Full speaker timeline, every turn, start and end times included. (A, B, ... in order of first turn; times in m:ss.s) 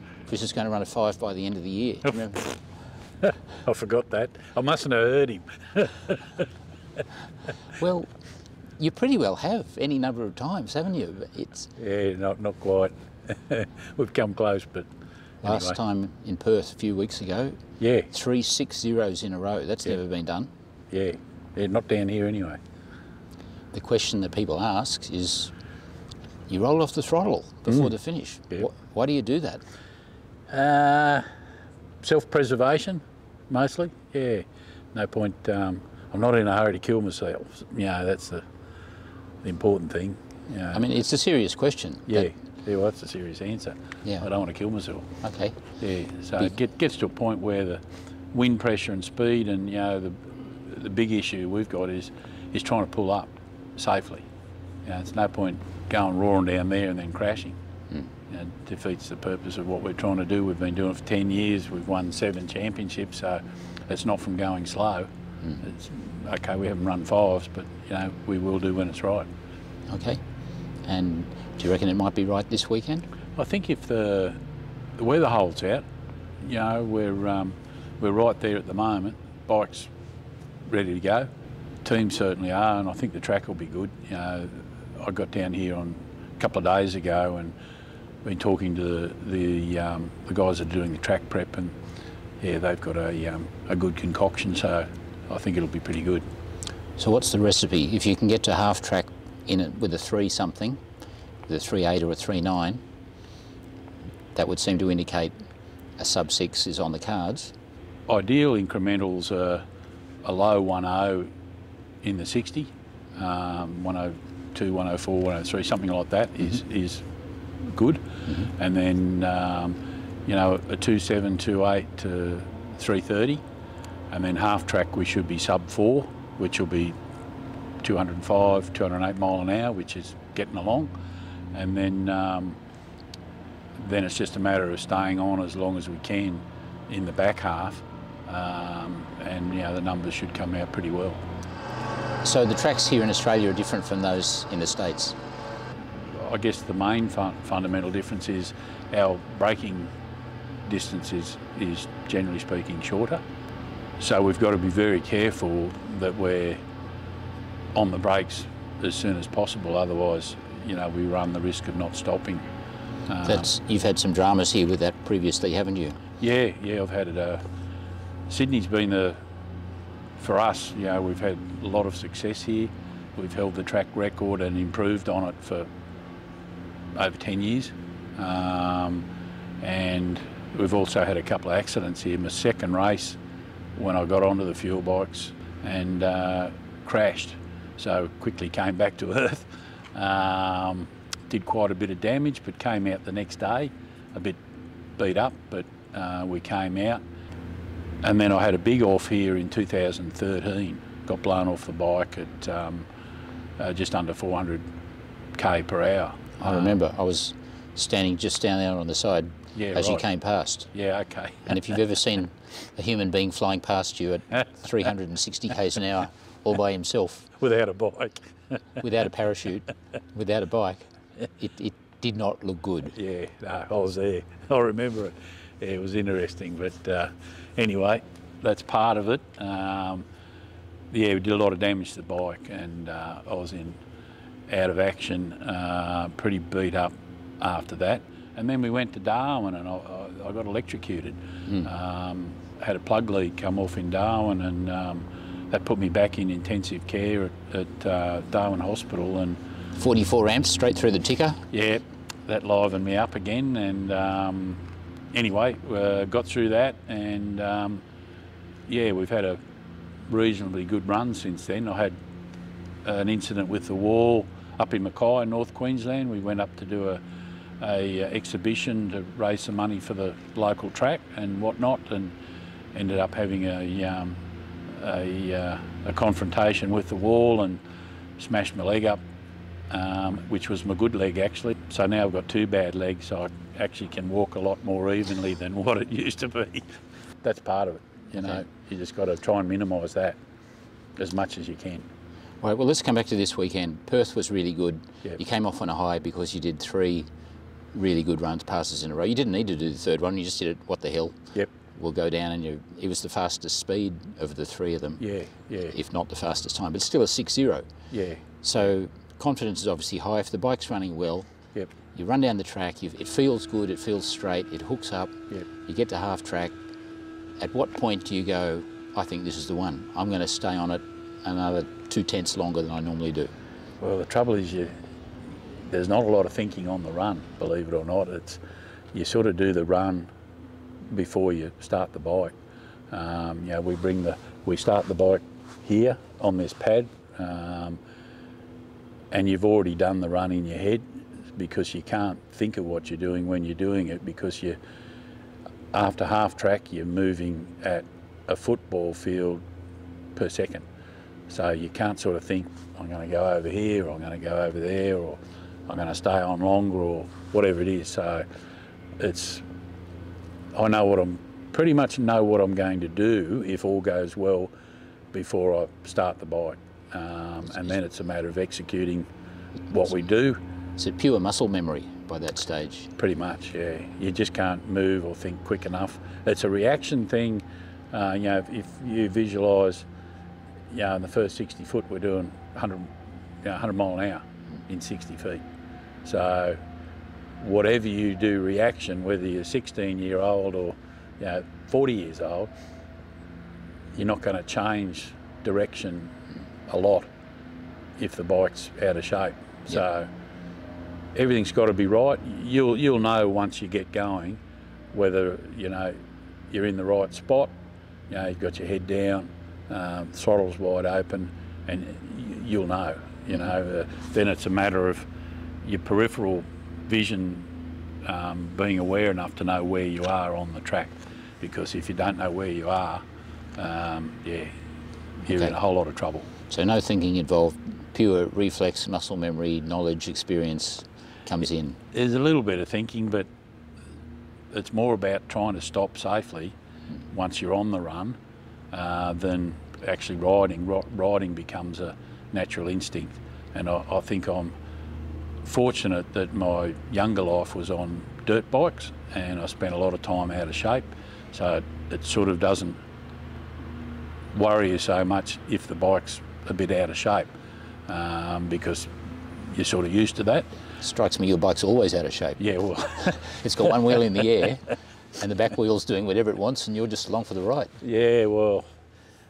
0:00.3-0:02.5 A
0:03.2-0:06.4 B
0:07.7-0:08.1 A
0:08.8-0:11.7 A
0:11.8-0:14.9 B
0:15.4-0:17.6 A
0:15.4-0:15.8 B
0:17.8-0:18.1 B
0:18.1-0:20.5 A
0:20.9-0:22.6 B
0:23.7-0:25.5 A
0:26.5-0:29.6 A
0:30.5-0:31.3 B
0:32.0-0:38.5 B
0:39.4-0:40.8 B
0:40.7-0:42.3 A
0:42.1-0:45.1 B
0:45.2-0:45.6 A
0:45.8-0:54.2 B
0:54.8-0:57.6 B
0:58.3-1:09.3 B
1:09.9-1:10.2 A
1:10.8-1:13.1 A
1:13.4-1:14.4 B
1:15.0-1:15.8 B
1:16.4-1:19.9 B
1:20.7-1:21.3 B
1:21.8-1:27.6 B
1:28.2-1:31.8 B
1:32.4-1:36.2 B
1:37.0-1:40.8 A
1:41.5-1:42.8 A
1:44.4-1:45.3 A
1:46.0-1:47.5 A
1:48.1-1:49.6 B
1:50.2-1:51.3 B
1:52.0-1:57.0 B
1:57.6-2:03.4 B
2:04.1-2:07.0 B
2:07.8-2:10.9 B
2:11.5-2:12.6 B
2:13.8-2:21.2 B
2:22.2-2:25.2 A
2:26.1-2:29.9 B
2:30.7-2:33.2 B
2:34.0-2:36.6 B
2:37.8-2:42.4 B
2:43.1-2:43.5 B
2:43.2-2:46.0 A
2:46.2-2:47.4 B
2:48.3-2:49.2 B
2:50.2-2:55.7 B
2:57.0-2:59.1 B
2:59.6-3:03.2 B
3:03.8-3:14.4 B
3:15.0-3:17.0 B
3:18.0-3:22.9 B
3:23.6-3:24.6 B
3:25.4-3:26.8 B
3:26.4-3:30.7 A
3:29.6-3:30.0 B
3:30.7-3:31.6 B
3:31.5-3:37.3 A
3:37.4-3:38.8 B
3:38.8-3:43.0 A
3:43.0-3:50.1 B
3:50.9-3:53.8 B
3:54.5-4:09.4 B
4:09.8-4:11.4 A
4:11.5-4:17.8 B
4:18.7-4:19.4 B
4:20.1-4:22.0 B
4:22.8-4:27.0 B
4:27.6-4:32.2 B
4:32.7-4:37.6 B
4:38.2-4:39.0 B
4:39.7-4:46.7 B
4:47.2-4:50.2 B
4:51.0-4:51.9 B
4:52.4-4:57.1 A
4:57.7-5:01.2 A
5:01.7-5:05.0 A
5:05.0-5:05.8 B
5:05.7-5:07.7 A
5:07.9-5:08.2 B
5:08.4-5:11.3 A
5:11.9-5:15.1 A
5:15.7-5:16.5 A
5:17.4-5:23.3 A
5:23.8-5:24.8 B
5:25.6-5:28.4 B
5:28.9-5:30.1 B
5:30.9-5:32.3 B
5:32.9-5:37.8 B
5:39.1-5:44.6 B
5:45.7-5:49.4 B
5:50.2-5:50.6 B
5:51.3-5:58.2 B
5:59.0-5:59.4 B
6:00.6-6:04.5 B
6:05.1-6:09.1 B
6:09.7-6:10.4 B
6:10.8-6:12.9 A
6:13.0-6:19.9 B
6:20.7-6:22.9 B
6:23.4-6:25.4 B
6:26.0-6:26.6 B
6:27.4-6:32.5 B
6:34.0-6:36.2 B
6:36.7-6:37.1 B
6:38.0-6:40.1 B
6:41.2-6:44.4 B
6:44.9-6:46.0 B
6:46.5-6:47.5 B
6:48.1-6:55.1 B
6:55.6-6:57.5 B
6:58.0-7:03.0 B
7:03.6-7:04.5 B
7:05.2-7:06.3 B
7:06.5-7:11.8 A
7:11.9-7:13.3 B
7:14.5-7:16.6 B
7:17.1-7:18.2 B
7:18.7-7:24.6 B
7:25.4-7:32.8 B
7:34.3-7:37.3 B
7:37.9-7:38.9 B
7:39.5-7:40.5 B
7:40.8-7:42.4 A
7:42.4-7:43.4 B
7:43.1-7:47.7 A
7:47.8-7:48.6 B